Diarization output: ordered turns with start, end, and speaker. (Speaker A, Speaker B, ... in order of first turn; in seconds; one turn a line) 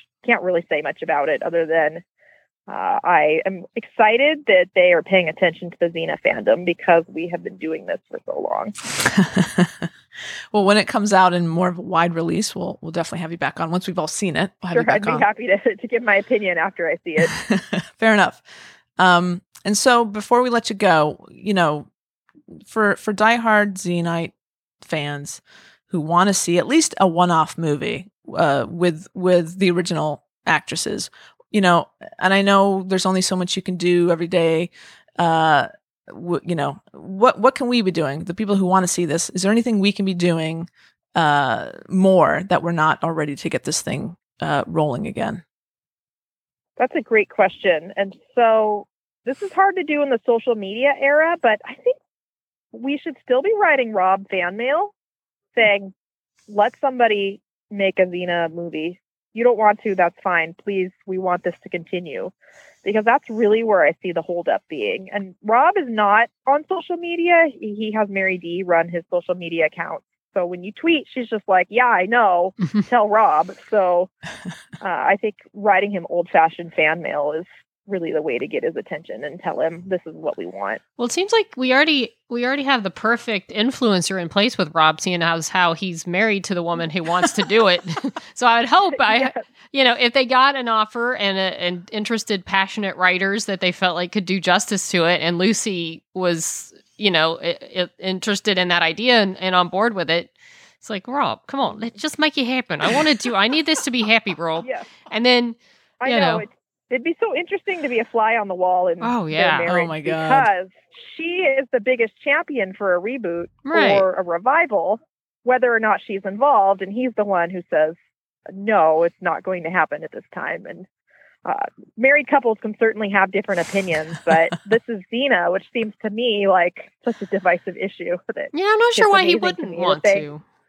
Speaker A: 0.2-2.0
Speaker A: 2.7-8.7
Speaker B: 8.9-9.9
Speaker B: 10.5-15.2
Speaker A: 14.7-17.4
Speaker B: 17.2-18.4
Speaker B: 19.0-21.9
Speaker B: 22.5-45.4
Speaker A: 46.8-52.0
Speaker A: 52.7-54.9
Speaker A: 55.5-55.9
Speaker A: 56.5-62.3
Speaker A: 62.8-74.1
Speaker A: 74.8-80.8
Speaker C: 81.0-106.4
Speaker A: 89.0-89.4
Speaker A: 104.6-104.9
Speaker A: 106.0-118.0
Speaker C: 109.0-109.7
Speaker B: 109.7-110.5
Speaker C: 113.7-114.0
Speaker A: 118.5-120.9
Speaker A: 121.4-130.2
Speaker C: 128.5-130.4